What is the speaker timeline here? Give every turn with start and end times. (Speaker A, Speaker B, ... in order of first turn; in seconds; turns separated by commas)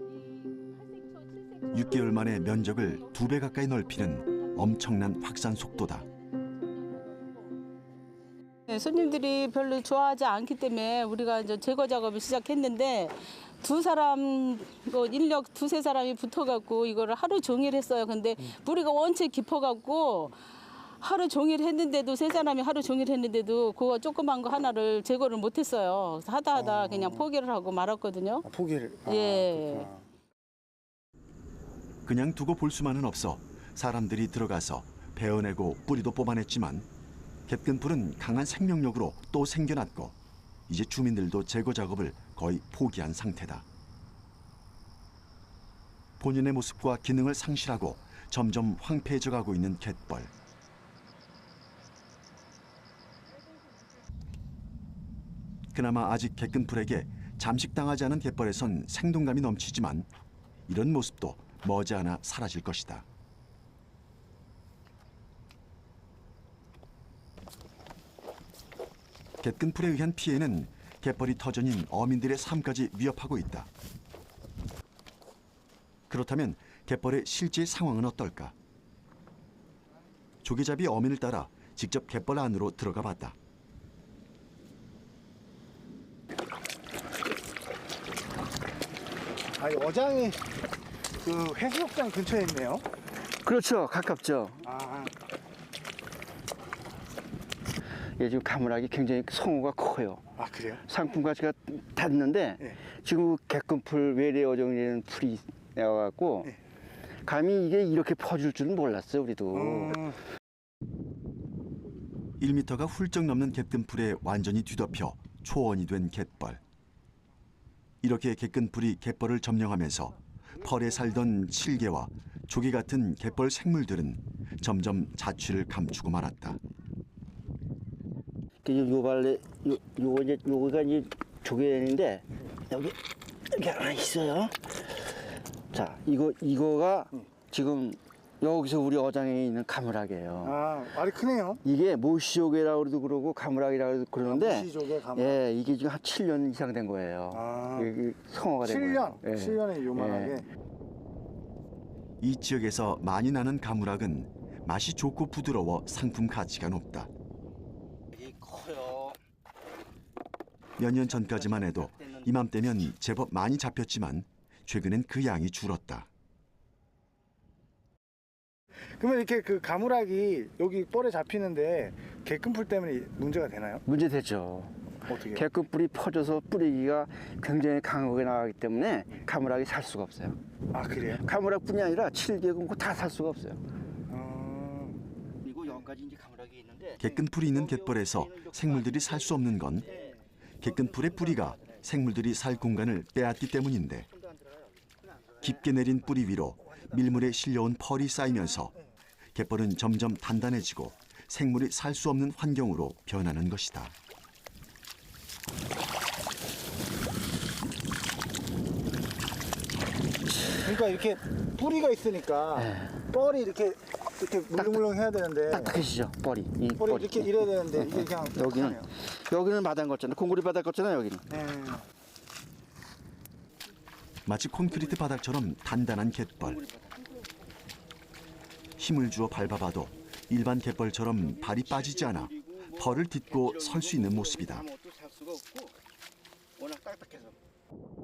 Speaker A: 1.7-6.1, Speaker B: 8.7-20.4, Speaker B: 21.0-28.4, Speaker C: 26.5-27.3, Speaker C: 28.4-30.0, Speaker B: 29.1-29.9, Speaker A: 32.0-36.9, Speaker A: 37.5-40.1, Speaker A: 40.7-43.6, Speaker A: 46.2-50.3, Speaker A: 55.7-60.1, Speaker A: 60.7-63.0, Speaker A: 69.4-73.7, Speaker A: 76.1-78.5, Speaker A: 80.4-83.3, Speaker C: 89.6-90.4, Speaker C: 91.2-92.9, Speaker D: 93.4-94.6, Speaker C: 94.6-95.1, Speaker D: 98.2-106.5, Speaker C: 100.4-100.8, Speaker D: 107.2-110.1, Speaker C: 109.6-110.1, Speaker A: 112.4-116.6, Speaker A: 118.0-126.6, Speaker D: 128.6-140.9, Speaker C: 140.4-141.6, Speaker D: 141.6-150.4, Speaker C: 144.2-145.4, Speaker C: 147.3-147.9, Speaker C: 148.6-150.4, Speaker A: 152.2-157.1, Speaker D: 158.1-159.2, Speaker A: 160.8-166.1, Speaker D: 161.2-162.2, Speaker C: 169.0-173.8, Speaker D: 173.8-180.4, Speaker C: 175.1-175.4, Speaker C: 180.7-181.2, Speaker D: 181.1-183.6, Speaker C: 184.1-185.0, Speaker D: 185.4-190.1, Speaker A: 187.0-189.9, Speaker A: 190.6-194.1, Speaker D: 190.7-191.8, Speaker D: 194.1-194.7, Speaker A: 195.4-198.7, Speaker A: 199.3-203.9, Speaker C: 210.6-215.8, Speaker D: 212.5-213.1, Speaker D: 214.5-214.9, Speaker D: 215.5-221.2, Speaker C: 216.8-218.9, Speaker C: 221.3-221.8, Speaker A: 224.2-226.6, Speaker D: 226.4-227.0, Speaker A: 228.8-234.7, Speaker D: 231.3-235.8, Speaker D: 236.6-237.3